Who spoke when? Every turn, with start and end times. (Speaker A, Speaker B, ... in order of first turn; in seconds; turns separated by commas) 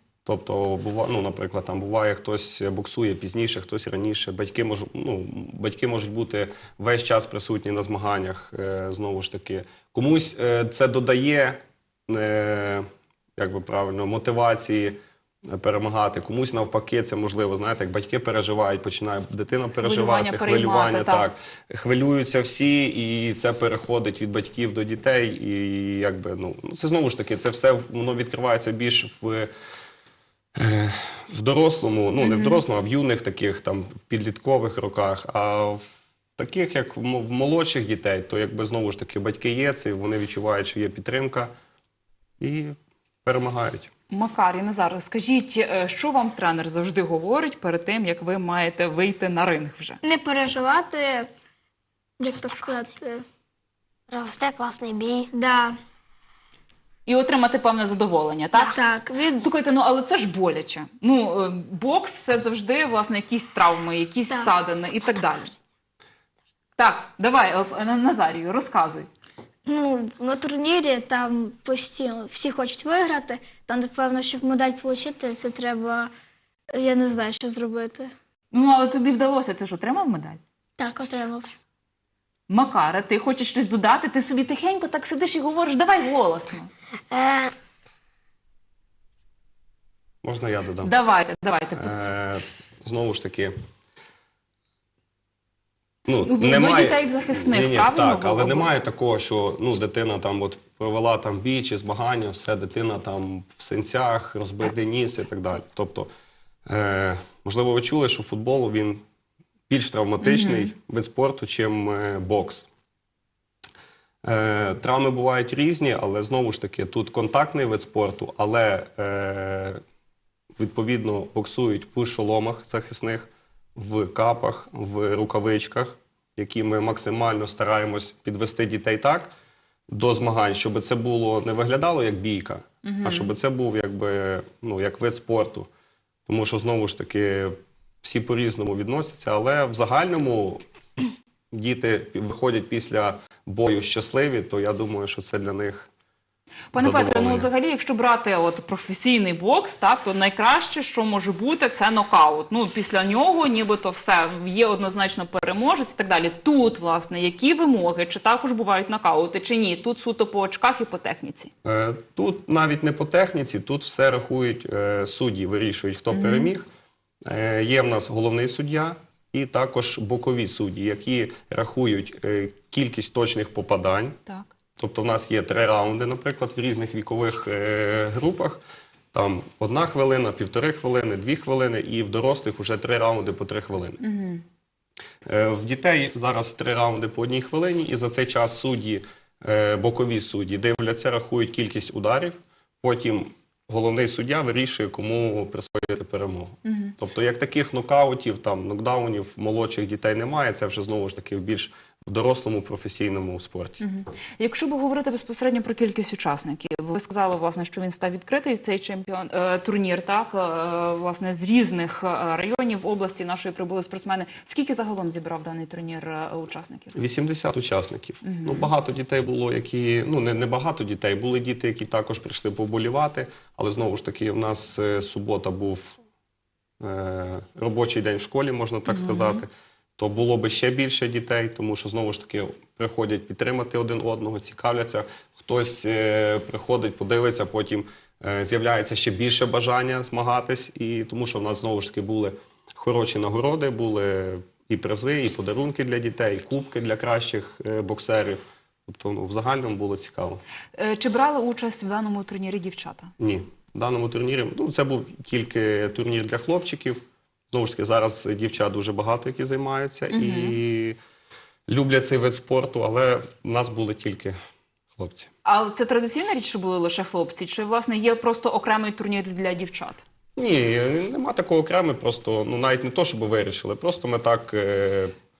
Speaker A: 0.2-29.5, Speaker B: 19.8-21.3, Speaker A: 30.5-41.5, Speaker B: 32.2-32.6, Speaker A: 42.4-43.9, Speaker B: 44.1-50.0, Speaker C: 50.0-51.3, Speaker C: 52.2-53.2, Speaker D: 52.5-52.8, Speaker D: 54.1-55.3, Speaker C: 55.3-55.8, Speaker B: 57.0-58.8, Speaker C: 58.5-59.5, Speaker B: 59.4-65.5, Speaker B: 66.8-69.1, Speaker C: 69.7-76.1, Speaker C: 76.7-78.1, Speaker B: 78.5-80.4, Speaker C: 80.8-81.5, Speaker B: 82.5-86.7, Speaker D: 87.1-87.5, Speaker A: 90.2-90.9, Speaker B: 90.8-92.0, Speaker A: 91.7-93.5, Speaker A: 96.1-106.1, Speaker B: 96.2-98.7, Speaker A: 106.7-109.0, Speaker A: 109.7-112.7, Speaker B: 110.2-110.7, Speaker A: 114.2-119.8, Speaker A: 120.6-129.3, Speaker A: 129.9-135.7, Speaker B: 132.8-133.3, Speaker A: 136.3-140.6, Speaker A: 141.5-145.9, Speaker B: 146.7-161.5, Speaker A: 146.7-147.5, Speaker A: 161.6-166.7, Speaker B: 166.1-166.5, Speaker A: 167.2-174.2, Speaker A: 174.8-178.6, Speaker A: 179.1-184.0, Speaker B: 184.0-184.4, Speaker A: 185.2-203.8, Speaker B: 196.6-196.9, Speaker B: 203.8-216.9, Speaker A: 216.9-226.0, Speaker B: 218.2-218.7, Speaker A: 226.8-250.4, Speaker B: 228.9-229.4, Speaker B: 250.7-253.1, Speaker A: 253.2-261.0, Speaker B: 260.1-260.6, Speaker A: 261.7-264.4, Speaker A: 264.9-265.3, Speaker B: 265.4-270.0, Speaker A: 270.4-275.1